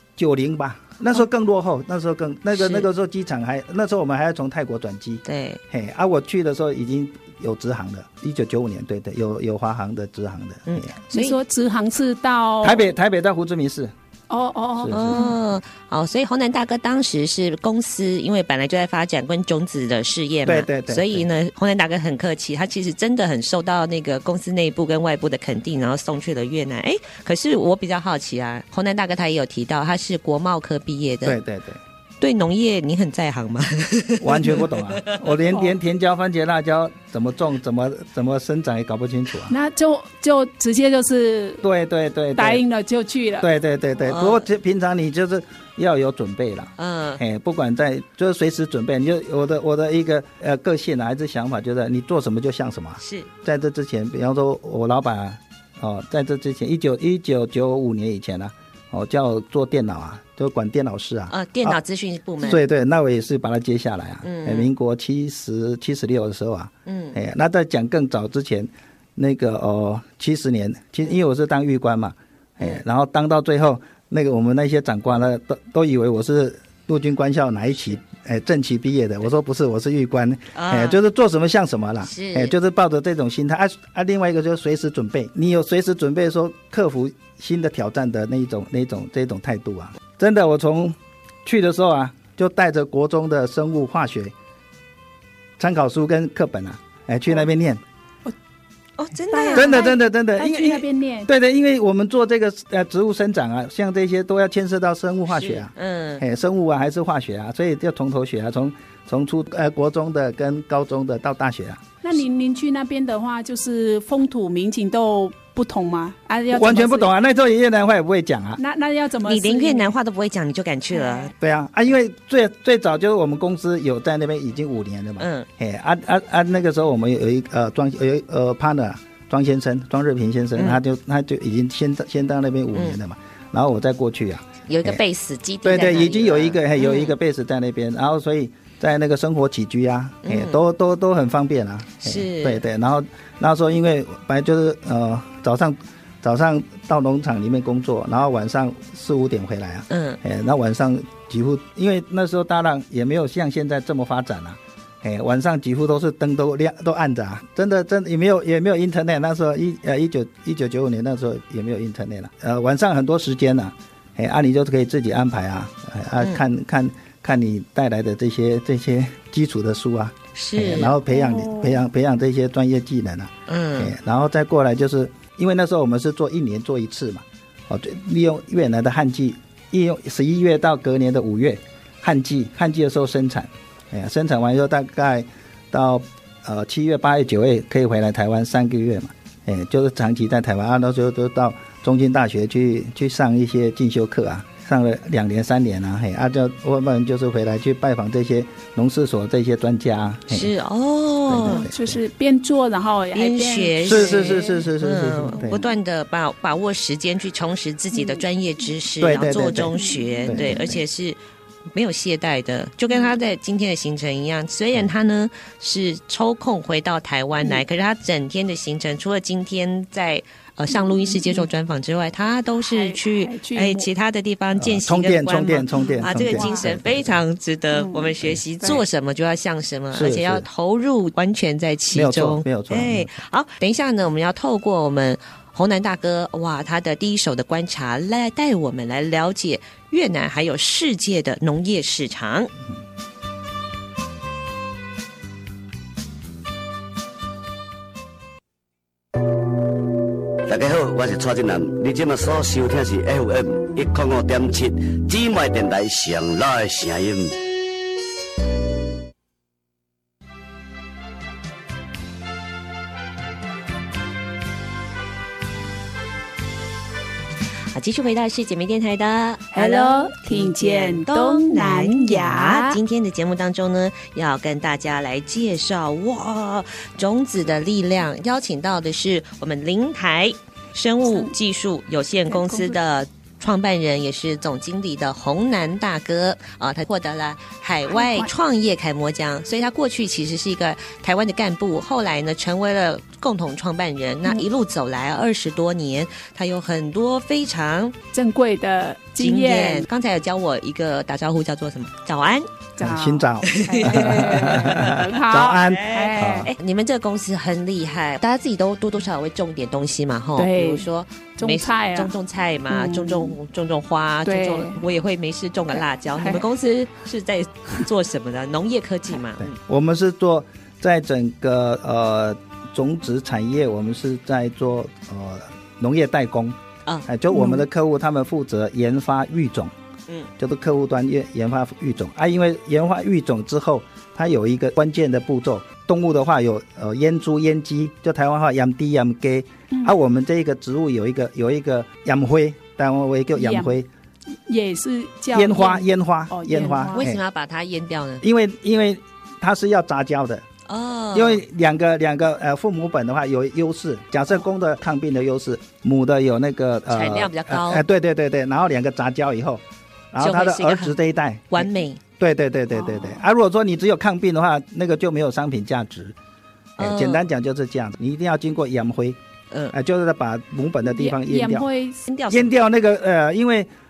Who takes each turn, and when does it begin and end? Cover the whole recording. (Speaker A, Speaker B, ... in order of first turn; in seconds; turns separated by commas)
Speaker A: 0.2-10.9, Speaker B: 2.5-2.8, Speaker B: 5.2-5.6, Speaker B: 10.7-11.4, Speaker C: 11.1-12.8, Speaker A: 12.6-13.9, Speaker C: 14.3-15.3, Speaker A: 14.8-15.2, Speaker B: 14.9-31.4, Speaker A: 20.4-21.2, Speaker A: 31.2-31.8, Speaker B: 32.2-35.2, Speaker A: 34.2-39.5, Speaker C: 35.5-35.7, Speaker C: 39.5-41.6, Speaker A: 41.6-42.6, Speaker C: 42.4-43.5, Speaker A: 43.4-61.8, Speaker B: 44.0-44.4, Speaker B: 46.8-47.2, Speaker B: 53.0-53.3, Speaker B: 61.3-62.6, Speaker A: 62.4-94.3, Speaker B: 64.2-64.7, Speaker B: 66.8-67.2, Speaker B: 80.5-81.0, Speaker B: 82.0-82.5, Speaker A: 95.6-97.8, Speaker B: 99.0-99.8, Speaker C: 99.3-101.3, Speaker A: 99.5-111.8, Speaker B: 105.3-106.2, Speaker C: 112.0-117.1, Speaker A: 116.5-118.6, Speaker C: 118.6-119.9, Speaker B: 119.2-121.3, Speaker C: 120.9-121.3, Speaker A: 121.4-135.0, Speaker B: 125.2-125.5, Speaker B: 134.7-137.1, Speaker A: 135.6-200.5, Speaker B: 140.2-140.6, Speaker B: 142.0-142.6, Speaker B: 149.9-150.2, Speaker B: 170.3-170.9, Speaker C: 171.1-171.8, Speaker B: 173.5-173.9, Speaker B: 200.3-201.7, Speaker A: 201.3-202.0, Speaker C: 201.5-204.7, Speaker B: 203.1-211.2, Speaker A: 203.8-205.6, Speaker C: 207.9-208.2, Speaker A: 209.0-209.7, Speaker C: 209.4-210.6, Speaker A: 210.2-210.8, Speaker B: 211.7-242.5, Speaker C: 220.7-221.5, Speaker C: 222.6-223.9, Speaker A: 224.6-227.2, Speaker C: 225.7-226.7, Speaker C: 227.7-228.8, Speaker A: 229.9-230.4, Speaker A: 231.9-233.1, Speaker D: 250.5-257.4, Speaker B: 267.7-297.9, Speaker C: 269.5-272.8, Speaker C: 281.0-281.3, Speaker C: 282.3-282.8, Speaker C: 287.9-288.3, Speaker C: 298.1-299.9, Speaker B: 299.2-302.5, Speaker C: 302.8-306.5, Speaker A: 302.8-306.5, Speaker B: 303.4-305.0, Speaker B: 305.6-319.6, Speaker C: 310.4-310.9, Speaker C: 311.4-312.1, Speaker C: 312.7-313.4, Speaker C: 314.2-314.8, Speaker C: 315.7-316.4, Speaker A: 319.4-326.6, Speaker A: 327.1-329.7, Speaker C: 327.3-327.6, Speaker A: 330.4-343.9, Speaker C: 343.3-343.8, Speaker C: 344.5-347.0, Speaker A: 345.3-347.2, Speaker B: 346.9-348.2, Speaker A: 348.2-350.4, Speaker B: 350.7-351.4, Speaker A: 351.1-366.1, Speaker B: 356.9-357.8, Speaker B: 360.2-361.0, Speaker B: 361.5-362.0, Speaker C: 362.7-363.2, Speaker B: 366.8-367.2, Speaker A: 366.8-369.2, Speaker A: 369.7-371.7, Speaker C: 370.8-372.0, Speaker B: 372.1-372.5, Speaker A: 372.3-373.7